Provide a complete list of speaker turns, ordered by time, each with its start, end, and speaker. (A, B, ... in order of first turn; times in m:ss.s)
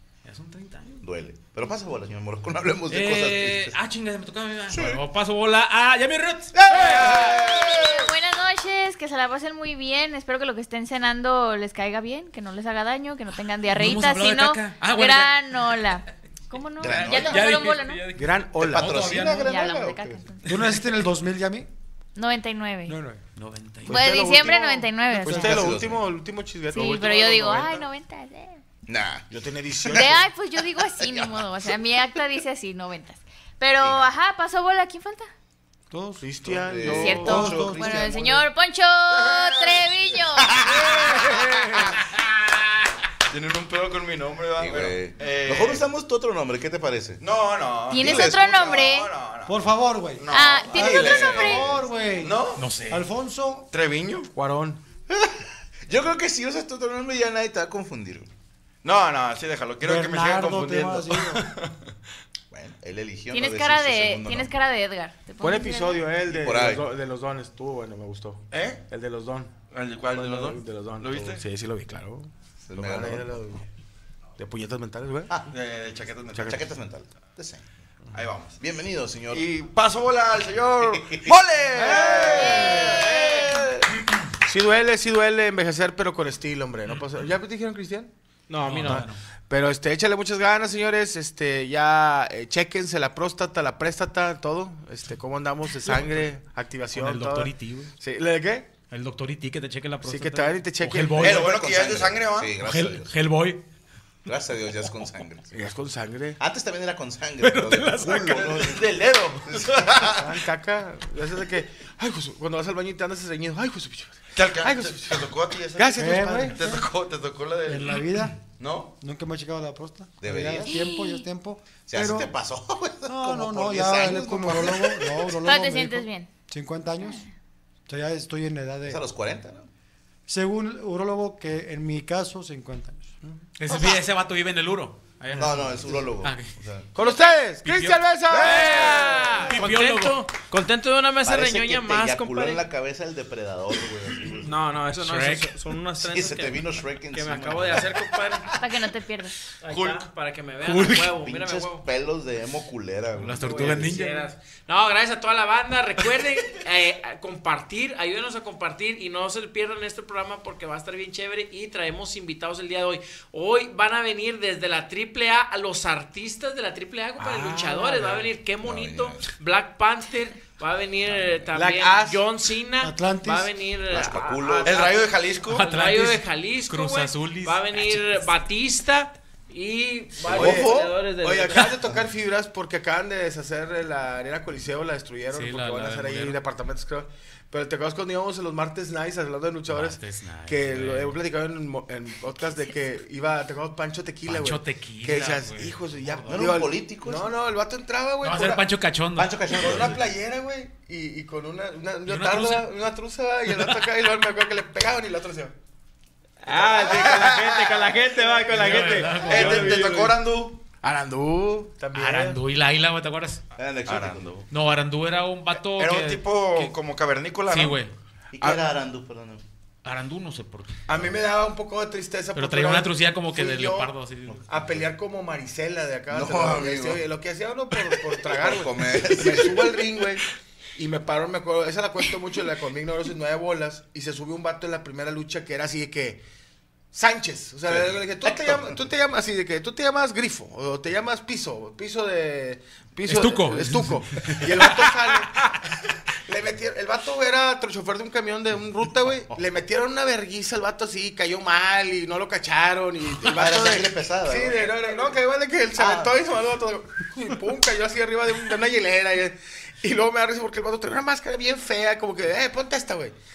0:00.2-0:01.0 A
0:01.0-0:03.8 B
0:02.9-0:07.3 A
0:04.7-0:05.0 B
0:06.5-0:08.1 B
0:06.9-0:07.7 C
0:06.9-0:18.0 D
0:13.7-0:15.9 A
0:16.8-0:17.5 B
0:16.8-0:19.5 A
0:18.1-0:19.3 E
0:18.6-0:20.1 B
0:19.3-0:20.6 D
0:20.4-0:21.7 F
0:22.2-0:23.0 D
0:22.9-0:23.2 F
0:23.4-0:24.1 A
0:23.8-0:27.8 E
0:23.9-0:25.5 D
0:25.2-0:25.6 F
0:25.3-0:26.1 B
0:26.7-0:28.6 D
0:28.9-0:29.3 B
0:29.3-0:30.3 E
0:29.8-0:30.1 B
0:29.9-0:35.3 D
0:30.8-0:31.8 B
0:33.8-0:34.1 B
0:35.9-0:38.4 F
0:36.2-0:37.6 E
0:36.5-0:38.3 B
0:36.9-0:40.7 D
0:39.3-0:39.8 C
0:40.4-0:41.8 B
0:41.0-0:41.8 E
0:43.3-0:45.8 C
0:44.6-0:47.2 B
0:47.2-0:49.6 C
0:47.9-0:49.1 D
0:47.9-0:48.7 B
0:49.5-0:53.7 F
0:50.2-0:51.6 C
0:50.3-0:51.7 D
0:50.8-0:51.8 B
0:52.2-0:52.7 C
0:52.6-0:53.1 A
0:53.7-0:54.3 C
0:54.4-0:54.8 E
0:55.1-0:58.3 B
0:58.8-1:01.4 C
0:59.8-1:01.5 F
1:02.5-1:04.5 B
1:03.3-1:06.1 D
1:05.4-1:09.5 E
1:06.3-1:06.9 B
1:08.5-1:08.8 C
1:09.7-1:11.4 C
1:10.1-1:13.6 E
1:12.7-1:13.4 B
1:14.4-1:15.3 E
1:15.5-1:16.6 C
1:16.4-1:17.6 B
1:18.1-1:18.6 C
1:18.6-1:19.5 B
1:19.3-1:23.6 C
1:20.8-1:21.4 B
1:21.7-1:23.0 E
1:22.0-1:23.9 B
1:22.4-1:23.4 D
1:24.4-1:28.1 E
1:26.9-1:27.1 A
1:28.5-1:29.1 G
1:28.6-1:29.2 A
1:28.8-1:38.7 E
1:35.8-1:36.3 A
1:36.9-1:37.9 A
1:38.9-1:41.4 A
1:40.0-1:41.5 E
1:41.2-1:42.6 C
1:41.2-1:43.1 B
1:42.6-1:43.6 A
1:44.3-1:45.5 B
1:45.5-1:46.4 E
1:46.4-1:48.9 B
1:47.4-1:48.8 A
1:48.1-1:50.2 C
1:49.5-1:50.3 B
1:50.1-1:56.6 E
1:54.3-1:58.0 C
1:56.0-1:56.9 F
1:57.6-1:58.4 F
1:58.6-1:58.9 C
1:59.0-2:02.3 F
2:00.2-2:00.8 B
2:00.7-2:01.3 D
2:01.9-2:05.4 B
2:03.1-2:07.2 F
2:05.4-2:06.3 D
2:07.0-2:07.3 D
2:07.9-2:09.0 F
2:08.8-2:09.7 B
2:10.3-2:13.1 F
2:13.6-2:16.5 A
2:13.7-2:14.0 B
2:15.3-2:16.9 B
2:17.0-2:19.4 E
2:17.6-2:20.3 A
2:18.4-2:22.6 G
2:18.5-2:19.2 B
2:21.2-2:24.6 B
2:24.4-2:28.5 G
2:24.9-2:25.6 A
2:26.0-2:28.0 B
2:28.6-2:29.4 D
2:29.6-2:31.9 G
2:30.6-2:31.1 A
2:31.2-2:33.9 B
2:33.2-2:34.3 A
2:33.4-2:55.0 G
2:47.2-2:48.3 E
2:48.6-2:49.3 B
2:51.5-2:52.2 E
2:52.8-2:53.5 F
2:53.9-2:54.9 B
2:54.6-2:55.7 C
2:55.5-2:58.3 A
2:55.6-3:01.7 G
3:00.2-3:18.6 E
3:00.3-3:00.9 C
3:05.3-3:06.4 A
3:09.7-3:11.2 A
3:14.3-3:16.5 A
3:16.3-3:17.3 B
3:18.2-3:19.5 A
3:19.2-3:20.0 B
3:19.5-3:25.5 E
3:22.1-3:22.7 A
3:23.5-3:23.8 A
3:26.4-3:29.1 G
3:26.8-3:27.4 C
3:26.9-3:27.2 E
3:27.8-3:30.2 E
3:28.5-3:29.8 A
3:29.2-3:30.6 C
3:30.8-3:32.4 E
3:31.9-3:33.4 A
3:33.6-3:34.4 B
3:33.9-3:34.4 C
3:34.5-3:36.7 A
3:35.6-3:37.8 C
3:37.5-3:37.9 A
3:38.3-3:39.4 B
3:39.8-3:40.8 A
3:40.9-3:43.9 E
3:42.3-3:44.6 A
3:44.3-3:44.7 B
3:44.5-3:50.2 E
3:46.1-3:47.1 B
3:48.4-3:49.8 B
3:50.8-3:56.2 E
3:56.9-4:05.4 E
3:57.7-3:58.8 B
4:03.1-4:05.6 A
4:06.3-4:23.2 E
4:13.2-4:15.1 B
4:15.8-4:16.2 B